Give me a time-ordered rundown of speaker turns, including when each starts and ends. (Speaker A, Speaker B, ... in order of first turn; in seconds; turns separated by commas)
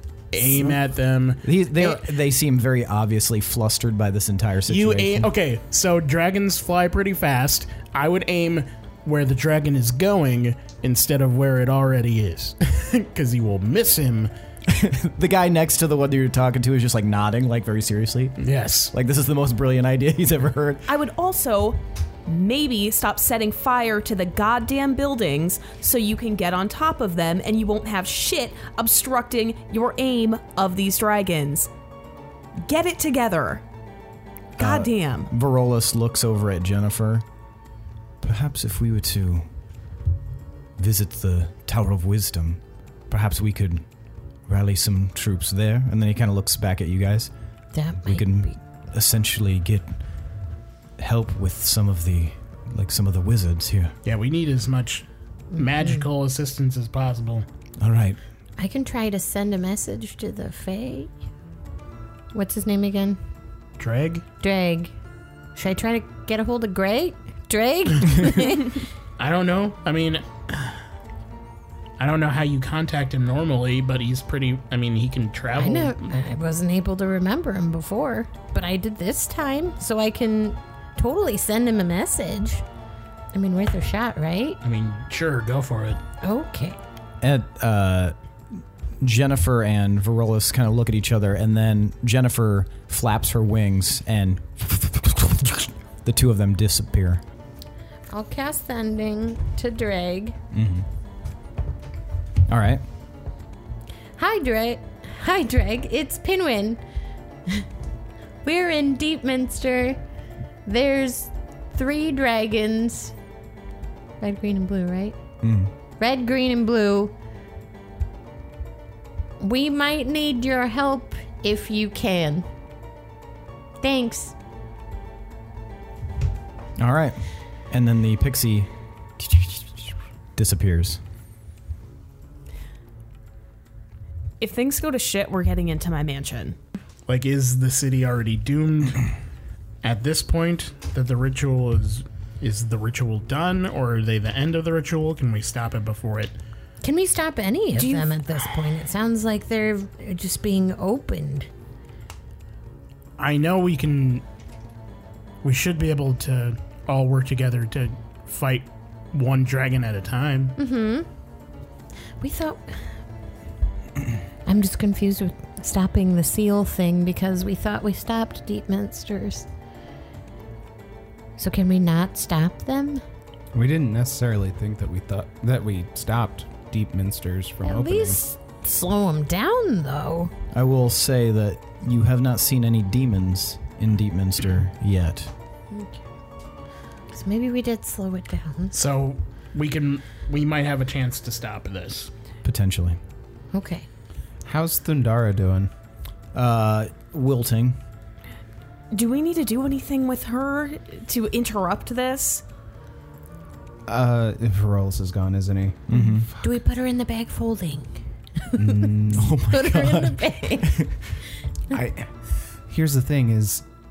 Speaker A: 0.3-1.4, Speaker B: 0.5-0.8, Speaker B: 1.4-5.3, Speaker A: 4.7-14.3, Speaker B: 14.7-18.4, Speaker A: 18.4-18.9, Speaker B: 18.9-20.9, Speaker C: 20.9-31.7, Speaker C: 32.6-33.6, Speaker C: 34.6-35.3, Speaker B: 34.6-37.2, Speaker B: 38.2-39.5, Speaker B: 40.8-43.9, Speaker B: 44.5-47.3, Speaker D: 47.7-48.5, Speaker B: 48.0-49.9, Speaker B: 51.0-53.9, Speaker A: 54.0-57.5, Speaker D: 55.5-56.0, Speaker B: 57.8-58.2, Speaker D: 58.6-61.1, Speaker D: 62.3-63.2, Speaker A: 63.8-64.2, Speaker D: 64.4-64.9, Speaker D: 65.5-68.8, Speaker A: 69.2-70.8, Speaker A: 72.0-76.1, Speaker D: 75.6-82.6, Speaker D: 83.3-84.6, Speaker A: 84.6-86.0, Speaker D: 86.2-86.8, Speaker B: 87.2-88.2, Speaker B: 89.0-97.2, Speaker D: 98.1-100.4, Speaker B: 100.5-100.9, Speaker B: 102.5-102.8, Speaker D: 104.2-106.8, Speaker D: 108.4-110.0, Speaker D: 110.7-113.1, Speaker D: 114.2-115.2, Speaker B: 115.4-115.7, Speaker D: 116.0-117.1, Speaker D: 119.4-122.5, Speaker D: 123.8-124.3, Speaker B: 126.8-131.0, Speaker C: 134.4-136.6, Speaker A: 137.1-139.1, Speaker A: 139.8-146.4, Speaker D: 146.8-151.5, Speaker C: 147.8-148.2, Speaker A: 153.2-154.2, Speaker A: 155.4-160.6, Speaker D: 160.6-161.1, Speaker D: 162.2-162.8, Speaker D: 164.5-169.5, Speaker D: 171.4-173.0, Speaker E: 173.5-178.2, Speaker D: 177.6-180.3, Speaker B: 180.5-185.3, Speaker D: 185.7-186.0, Speaker D: 187.1-188.8, Speaker A: 188.7-192.1, Speaker B: 192.4-193.0, Speaker D: 193.5-193.9, Speaker E: 194.4-195.7, Speaker B: 196.3-197.8, Speaker C: 198.9-202.4, Speaker E: 203.9-206.2, Speaker B: 205.9-206.3, Speaker D: 206.4-210.8, Speaker E: 208.6-209.4, Speaker B: 209.1-211.0, Speaker E: 211.7-213.7